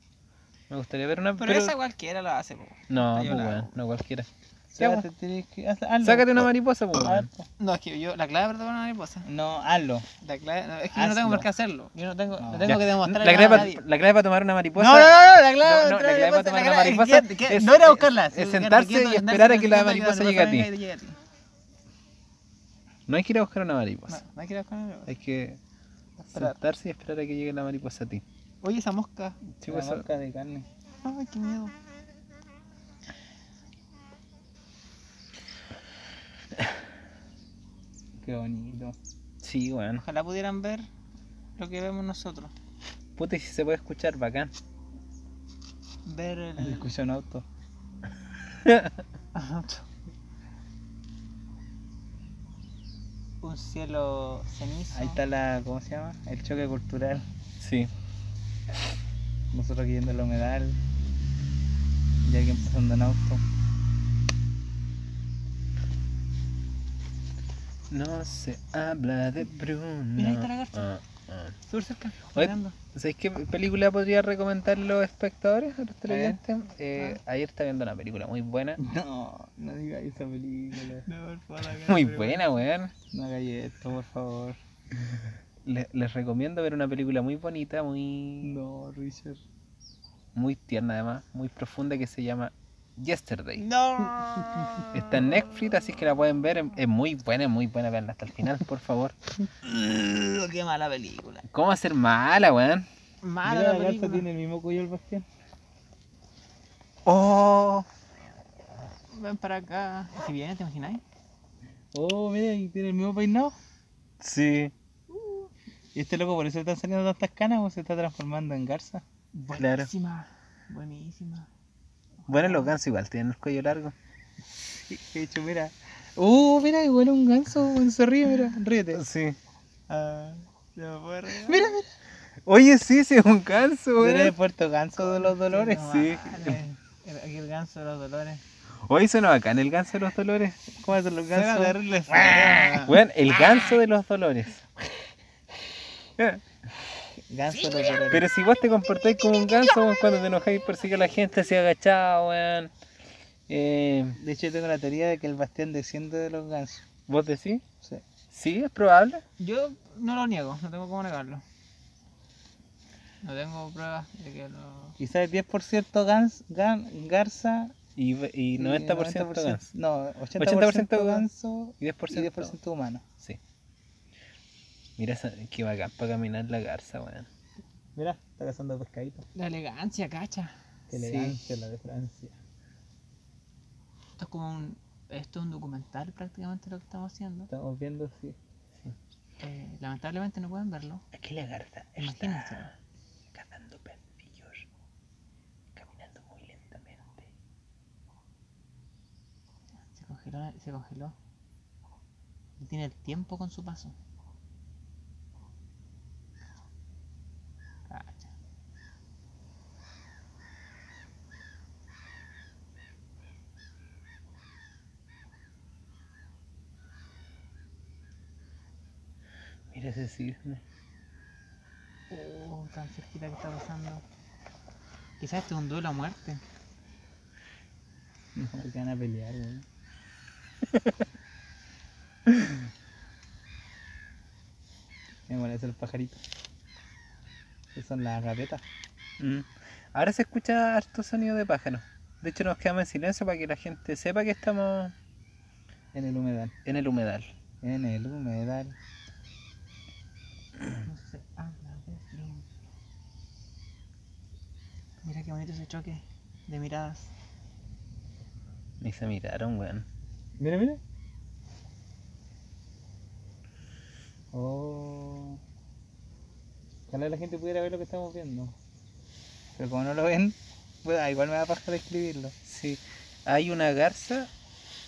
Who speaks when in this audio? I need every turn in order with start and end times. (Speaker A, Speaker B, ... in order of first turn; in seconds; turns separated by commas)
Speaker A: 0.7-1.7, Speaker B: 1.4-3.7, Speaker A: 2.9-5.0, Speaker C: 4.7-7.5, Speaker A: 6.0-7.3, Speaker B: 7.6-9.3, Speaker C: 9.2-10.1, Speaker B: 10.2-13.8, Speaker C: 10.9-11.5, Speaker C: 12.4-12.8, Speaker A: 12.7-20.7, Speaker B: 14.8-21.2, Speaker A: 23.1-24.2, Speaker B: 24.1-25.1, Speaker A: 25.1-25.6, Speaker B: 26.2-26.6, Speaker A: 26.3-28.2, Speaker B: 28.6-29.4, Speaker A: 29.6-30.0, Speaker C: 29.6-30.7, Speaker B: 31.0-31.7, Speaker C: 38.2-39.0, Speaker A: 39.4-40.0, Speaker B: 40.0-40.9, Speaker B: 41.6-42.5, Speaker A: 43.1-44.5, Speaker B: 46.0-46.9, Speaker C: 46.6-47.4, Speaker A: 48.6-49.0, Speaker B: 49.3-49.9, Speaker B: 53.4-55.2, Speaker C: 54.9-57.2, Speaker A: 57.6-57.9, Speaker C: 59.5-60.8, Speaker C: 62.2-63.4, Speaker A: 67.9-71.5, Speaker B: 70.2-70.9, Speaker B: 71.7-72.8, Speaker A: 72.3-78.8, Speaker C: 76.1-76.4, Speaker C: 78.8-81.0, Speaker B: 81.0-82.6, Speaker A: 81.8-82.9, Speaker C: 83.1-84.6, Speaker A: 85.6-88.6, Speaker C: 88.4-89.4, Speaker A: 90.3-93.6, Speaker B: 93.6-95.3, Speaker A: 94.9-99.1, Speaker B: 99.6-101.4, Speaker A: 101.5-102.9, Speaker B: 103.2-104.3, Speaker C: 103.4-105.2, Speaker A: 107.0-107.9, Speaker B: 109.1-111.0, Speaker C: 111.9-113.5, Speaker A: 114.2-114.7, Speaker B: 115.1-115.5, Speaker C: 115.9-119.0, Speaker B: 119.3-121.5, Speaker A: 119.5-119.9, Speaker B: 122.2-122.7, Speaker A: 122.3-123.9, Speaker C: 124.7-129.0, Speaker A: 128.9-129.4, Speaker B: 129.9-131.7, Speaker C: 131.4-131.8, Speaker A: 132.4-134.3, Speaker C: 134.0-135.9, Speaker B: 135.0-138.4, Speaker A: 135.8-136.6, Speaker A: 138.8-140.6, Speaker C: 140.8-142.8, Speaker B: 141.3-143.0, Speaker A: 142.8-144.7, Speaker C: 147.3-148.2, Speaker A: 148.1-152.7, Speaker A: 153.5-154.2, Speaker C: 154.2-156.8, Speaker A: 157.1-157.6, Speaker A: 158.3-159.2, Speaker B: 159.4-161.4, Speaker B: 163.2-165.0, Speaker C: 165.0-167.7, Speaker A: 167.9-169.7, Speaker C: 168.5-173.0, Speaker A: 170.4-171.3, Speaker A: 171.8-172.5, Speaker A: 175.0-177.3, Speaker C: 177.9-179.2, Speaker B: 179.3-180.5, Speaker C: 180.9-182.3, Speaker A: 180.9-181.4, Speaker B: 184.2-187.5, Speaker C: 187.5-188.3, Speaker B: 189.4-191.0, Speaker A: 191.1-192.7, Speaker B: 192.0-192.7, Speaker A: 193.3-194.7, Speaker A: 195.7-197.3, Speaker B: 199.9-201.1, Speaker B: 202.6-203.9, Speaker B: 207.9-208.3, Speaker A: 219.7-220.6, Speaker B: 222.1-224.0, Speaker B: 225.2-226.4, Speaker C: 228.3-229.6, Speaker C: 235.3-236.2, Speaker C: 237.7-238.6, Speaker A: 239.2-244.9, Speaker C: 245.9-246.5, Speaker A: 246.6-247.3, Speaker C: 247.6-248.7, Speaker B: 250.8-252.4, Speaker B: 255.0-257.1, Speaker A: 258.8-259.9, Speaker C: 260.4-260.8, Speaker C: 264.3-265.4, Speaker C: 266.9-268.5, Speaker C: 269.6-272.3, Speaker A: 272.4-274.3